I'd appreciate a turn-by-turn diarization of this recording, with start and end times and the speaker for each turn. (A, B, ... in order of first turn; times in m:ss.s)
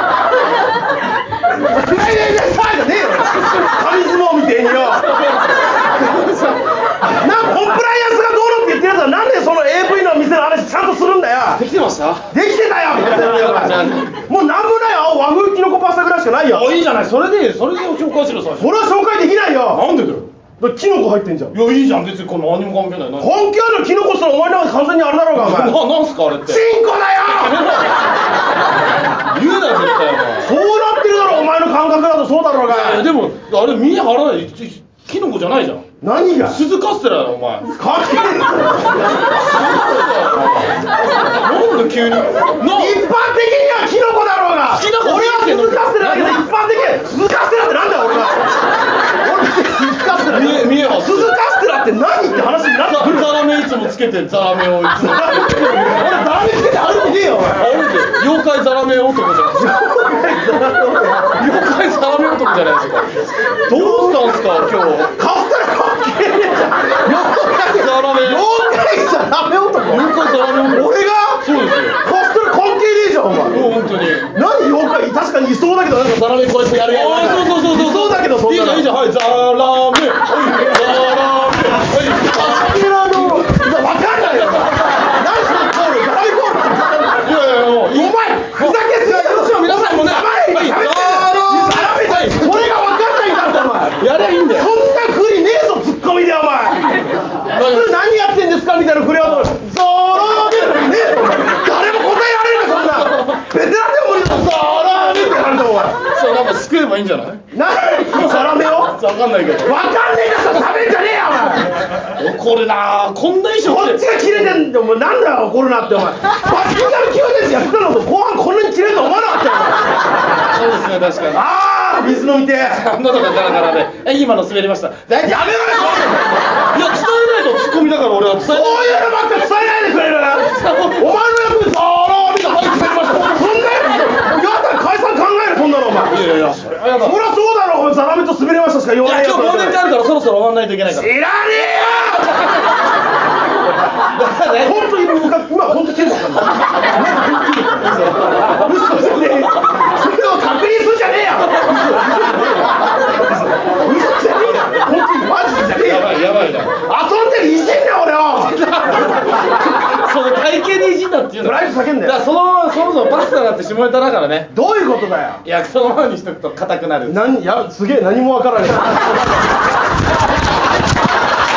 0:01.5-0:05.1 A
0:04.8-0:07.0 B
0:07.0-0:11.6 A
0:11.5-0:12.3 B
0:12.3-0:16.7 A
0:13.0-0:14.2 B
0:16.5-0:18.7 B
0:18.6-0:19.8 A
0:19.7-0:20.3 B
0:20.6-0:21.6 A
0:21.5-0:23.3 B
0:23.2-0:25.8 A
0:25.3-0:26.7 B
0:26.5-0:27.8 A
0:27.2-0:28.1 B
0:29.2-0:30.5 B
0:30.4-0:33.1 A
0:32.6-0:35.8 B
0:36.0-0:36.6 A
0:36.5-0:37.7 B
0:37.8-0:39.2 A
0:39.2-0:43.0 B
0:42.7-0:48.5 A
0:44.7-0:46.5 B
0:49.1-0:53.4 A
0:50.2-0:51.3 B
0:52.9-0:55.8 B
0:55.0-0:57.9 A
0:57.5-0:59.8 B
0:59.5-1:01.5 A
1:01.2-1:05.2 B
1:03.7-1:04.4 A
1:05.0-1:11.5 A
1:07.7-1:08.5 B
1:09.9-1:12.0 B
1:12.0-1:13.8 A
1:13.5-1:14.3 B
1:14.3-1:18.9 A
1:16.8-1:23.4 B
1:22.2-1:46.0 A
1:27.2-1:32.7 B
1:34.0-1:34.7 B
1:37.5-1:38.0 B
1:39.2-1:39.6 B
1:40.2-1:40.9 B
1:42.9-1:43.4 B
1:46.0-1:47.4 B
1:47.5-1:49.0 A
1:48.0-1:49.8 B
1:49.6-1:51.9 A
1:52.1-1:54.4 B
1:53.6-1:59.9 A
2:00.4-2:01.4 B
2:01.3-2:02.9 A
2:02.7-2:06.1 B
2:05.2-2:06.4 A
2:06.6-2:09.1 B
2:08.4-2:16.2 A
2:10.4-2:11.2 B
2:16.1-2:17.2 B
2:17.0-2:19.8 A
2:19.0-2:21.1 B
2:20.9-2:22.4 A
2:23.9-2:24.8 B
2:24.6-2:36.1 A
2:27.8-2:29.4 B
2:31.6-2:32.6 B
2:35.8-2:36.8 B
2:36.9-2:39.2 A
2:38.5-2:44.5 B
2:41.4-2:42.2 A
2:44.5-2:45.4 A
2:45.4-2:47.2 B
2:47.1-2:49.1 A